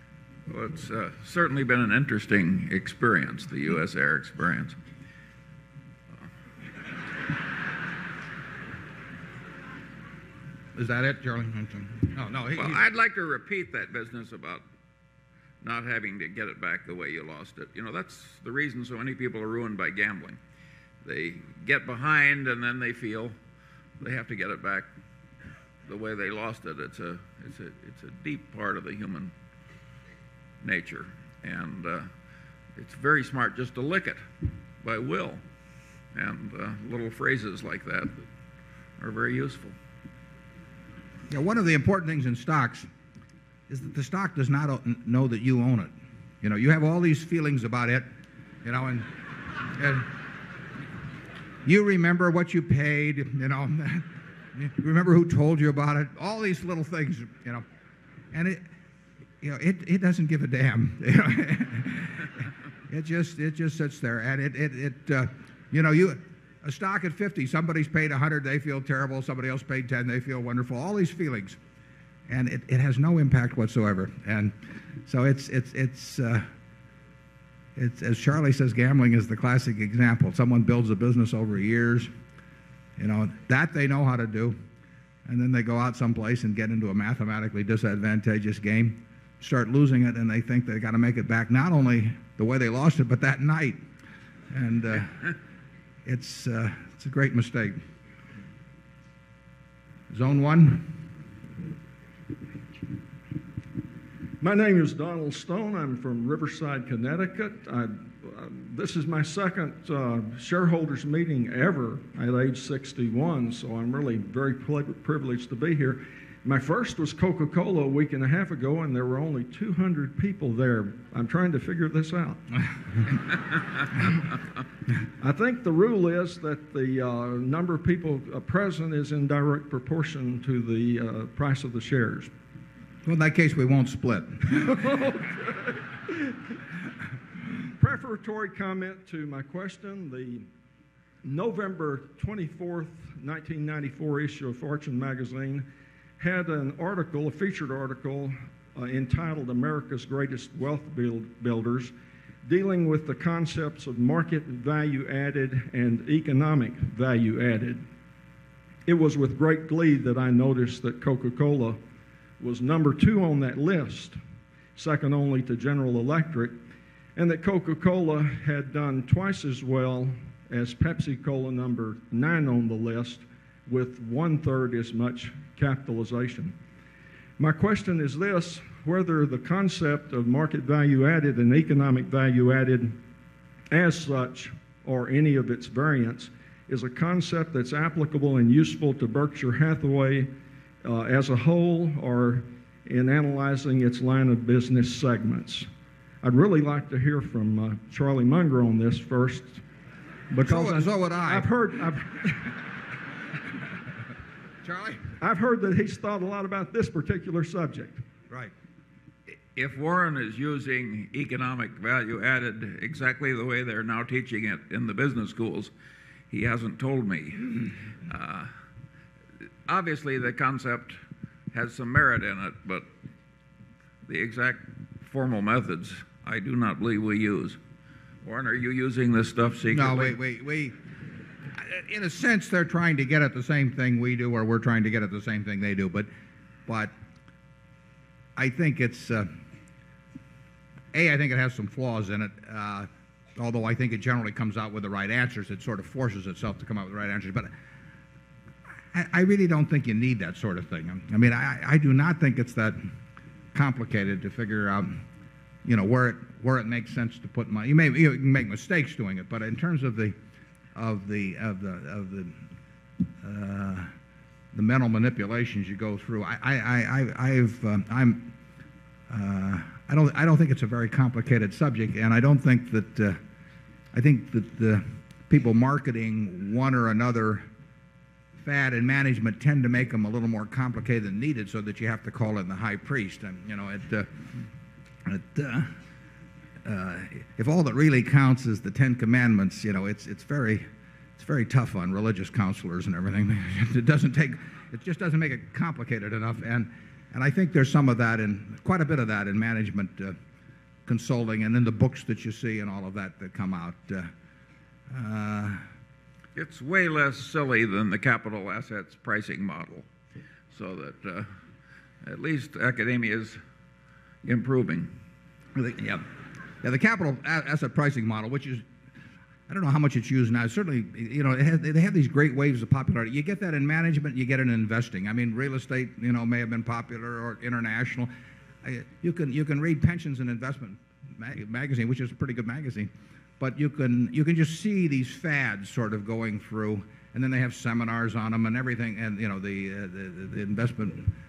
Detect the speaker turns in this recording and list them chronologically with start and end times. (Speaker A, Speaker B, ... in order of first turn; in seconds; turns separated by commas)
Speaker A: 0.5-4.8, Speaker B: 10.8-12.8, Speaker A: 12.6-14.6, Speaker A: 15.6-20.4, Speaker A: 21.0-23.3, Speaker A: 24.0-24.9, Speaker A: 25.9-29.3, Speaker A: 30.6-32.1, Speaker A: 32.8-34.2, Speaker A: 34.8-35.4, Speaker A: 36.1-38.2, Speaker A: 39.0-39.7, Speaker B: 41.3-42.9, Speaker B: 43.7-48.1, Speaker B: 48.6-49.1, Speaker B: 49.7-50.1, Speaker B: 51.6-57.6, Speaker B: 58.3-58.6, Speaker B: 59.4-71.6, Speaker B: 72.3-74.5, Speaker B: 75.0-76.5, Speaker B: 77.8-82.1, Speaker B: 83.0-84.6, Speaker B: 85.3-93.8, Speaker B: 94.5-95.3, Speaker B: 96.0-97.8, Speaker B: 100.1-101.0, Speaker C: 104.4-122.4, Speaker C: 125.2-132.3, Speaker B: 133.1-134.6, Speaker C: 134.6-136.1, Speaker C: 137.8-140.5, Speaker C: 141.2-145.7, Speaker C: 146.2-151.9, Speaker C: 152.4-157.9, Speaker C: 158.8-161.8, Speaker C: 162.4-164.2, Speaker C: 164.8-166.6, Speaker C: 167.2-176.6, Speaker C: 177.4-183.0, Speaker C: 183.7-190.3, Speaker C: 190.8-195.7, Speaker C: 196.2-199.6, Speaker C: 200.3-202.5, Speaker B: 200.4-201.5, Speaker B: 204.6-205.0, Speaker C: 205.2-208.0, Speaker A: 209.5-215.7, Speaker A: 216.3-218.5, Speaker A: 219.7-221.0, Speaker A: 221.5-222.9, Speaker A: 224.1-227.6, Speaker A: 228.2-230.2, Speaker B: 229.7-230.7, Speaker B: 231.6-236.1, Speaker B: 236.7-236.9, Speaker B: 238.3-239.3, Speaker B: 240.9-247.5, Speaker B: 248.9-252.8, Speaker B: 253.5-255.0, Speaker B: 255.6-260.1, Speaker B: 260.7-262.4, Speaker B: 263.2-263.9, Speaker B: 264.5-268.3, Speaker B: 269.1-273.2, Speaker B: 273.9-277.5, Speaker B: 278.4-284.2, Speaker B: 285.0-285.7, Speaker B: 286.6-300.2, Speaker B: 300.9-304.1, Speaker B: 304.9-305.6, Speaker A: 306.4-309.9, Speaker A: 310.5-311.3, Speaker A: 312.0-313.4, Speaker A: 314.2-314.9, Speaker B: 315.5-316.0, Speaker B: 316.6-318.6, Speaker B: 319.5-328.1, Speaker B: 328.6-341.1